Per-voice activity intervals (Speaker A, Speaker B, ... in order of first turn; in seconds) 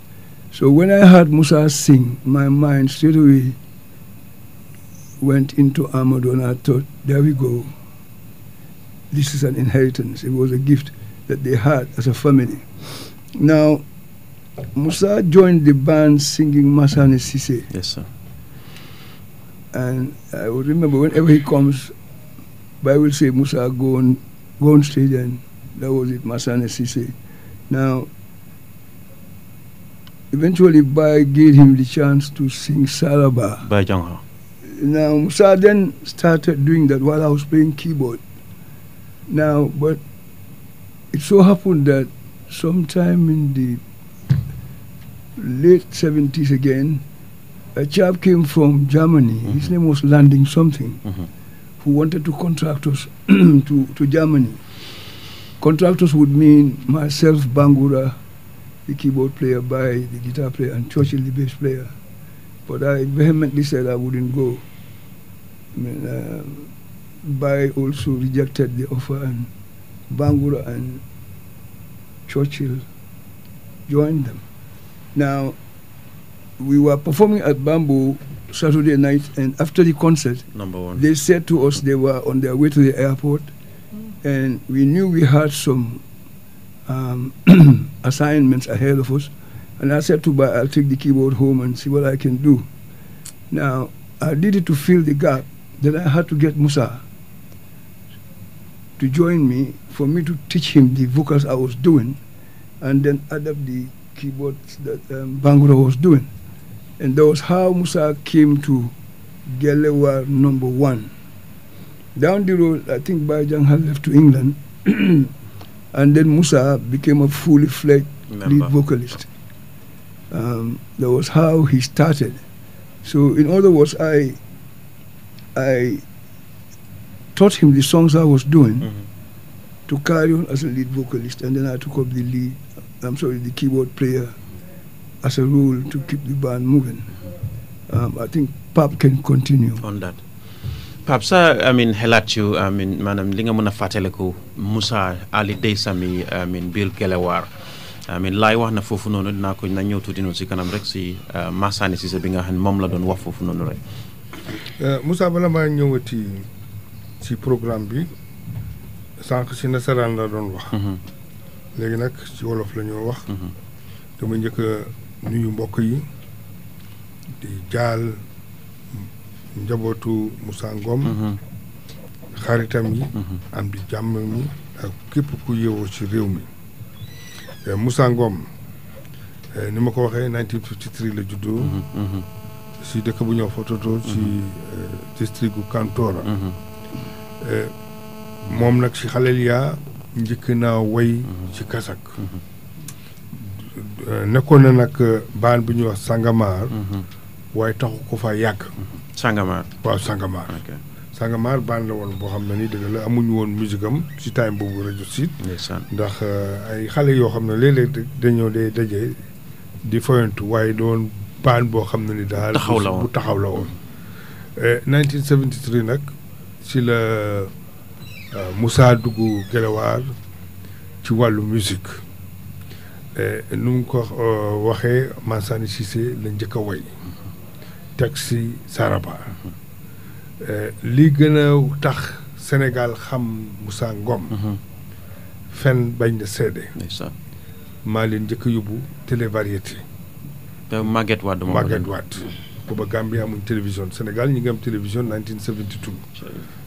Speaker A: 0.5-3.6, 5.2-7.7, 9.1-13.8, 14.8-17.7, 19.7-21.9, 22.8-27.1, 27.7-28.1, 30.3-33.6, 34.7-38.2, 39.3-40.0, 41.1-43.8, 45.4-47.0, 47.8-51.0, 51.8-54.6, 55.6-58.2, 58.9-61.9, 62.7-64.6, 65.8-66.7, 67.2-69.5, 70.1-71.0, 72.3-72.9, 73.9-74.4, 75.2-75.6, 76.6-80.4, 81.0-83.5, 84.2-86.0, 86.9-92.7, 93.5-97.0, 99.0-102.2, 102.8-106.3, 107.0-108.9, 109.5-111.1, 112.2-115.3, 115.9-119.3, 120.3-122.4, 123.0-124.4, 125.5-126.0, 127.3-128.9, 129.9-134.3, 135.2-137.1, 137.9-139.8
Speaker B: 17.7-18.1, 33.6-34.2, 80.5-81.0, 118.3-118.7, 139.8-140.2, 141.0-147.5, 148.1-153.8, 160.7-161.0, 171.1-171.4, 181.6-182.3, 184.1-184.3, 186.3-186.6, 196.8-197.1, 199.2-199.7, 200.5-200.8, 205.4-205.9, 212.5-213.1, 236.8-237.1, 240.7-241.9
Speaker C: 154.8-156.5, 157.2-158.1, 159.2-160.8, 161.8-163.3, 164.2-166.1, 167.4-168.2, 169.6-171.2, 172.4-176.5, 177.7-178.5, 179.5-181.8, 182.8-186.3, 187.4-187.7, 188.5-192.1, 193.4-196.8, 197.5-198.7, 199.8-200.6, 201.1-205.3, 205.9-209.2, 209.8-213.8, 214.6-216.1, 216.6-217.5, 218.3-220.1, 221.0-222.0, 223.2-226.9, 228.0-229.4, 230.4-234.4, 235.5-236.7, 237.8-239.8, 241.5-246.0